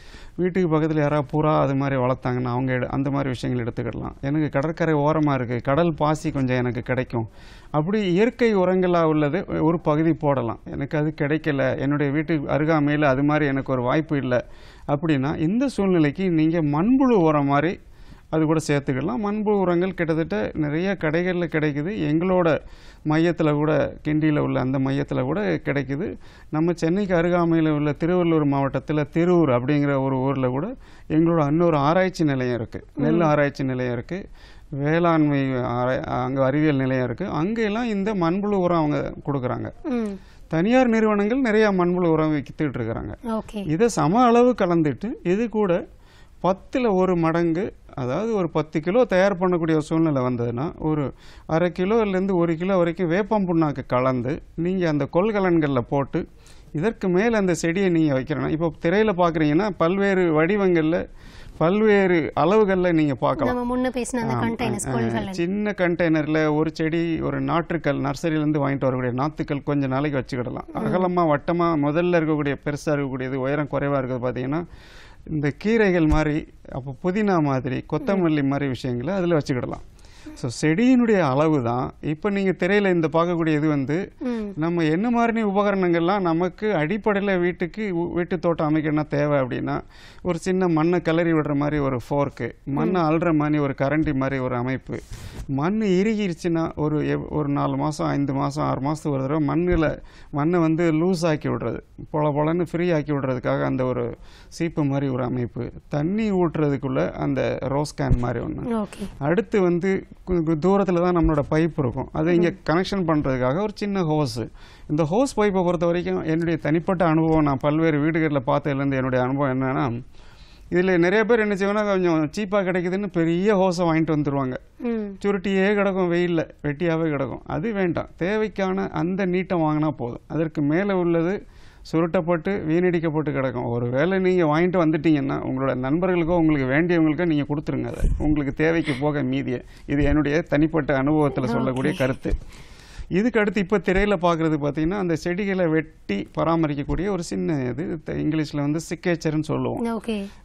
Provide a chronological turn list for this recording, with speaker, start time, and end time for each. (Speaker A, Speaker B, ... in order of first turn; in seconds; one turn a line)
Speaker A: 0.4-17.8
Speaker A: 18.3-22.6
Speaker A: 23.1-34.2
Speaker B: 33.0-33.3
Speaker A: 34.8-39.7
Speaker B: 39.9-40.2
Speaker A: 40.5-43.2
Speaker B: 43.3-43.7
Speaker A: 43.7-45.8
Speaker A: 46.4-56.2
Speaker A: 56.8-61.0
Speaker A: 61.6-63.6
Speaker B: 63.4-65.4
Speaker A: 64.2-74.7
Speaker B: 70.8-71.1
Speaker A: 75.3-79.8
Speaker A: 80.4-84.0
Speaker B: 84.2-84.6
Speaker A: 84.6-95.0
Speaker A: 95.5-108.7
Speaker B: 108.7-109.1
Speaker A: 109.2-119.9
Speaker A: 120.7-124.6
Speaker B: 124.8-125.2
Speaker A: 125.2-131.4
Speaker A: 131.9-142.4
Speaker B: 141.5-142.0
Speaker A: 143.2-149.8
Speaker B: 149.8-150.3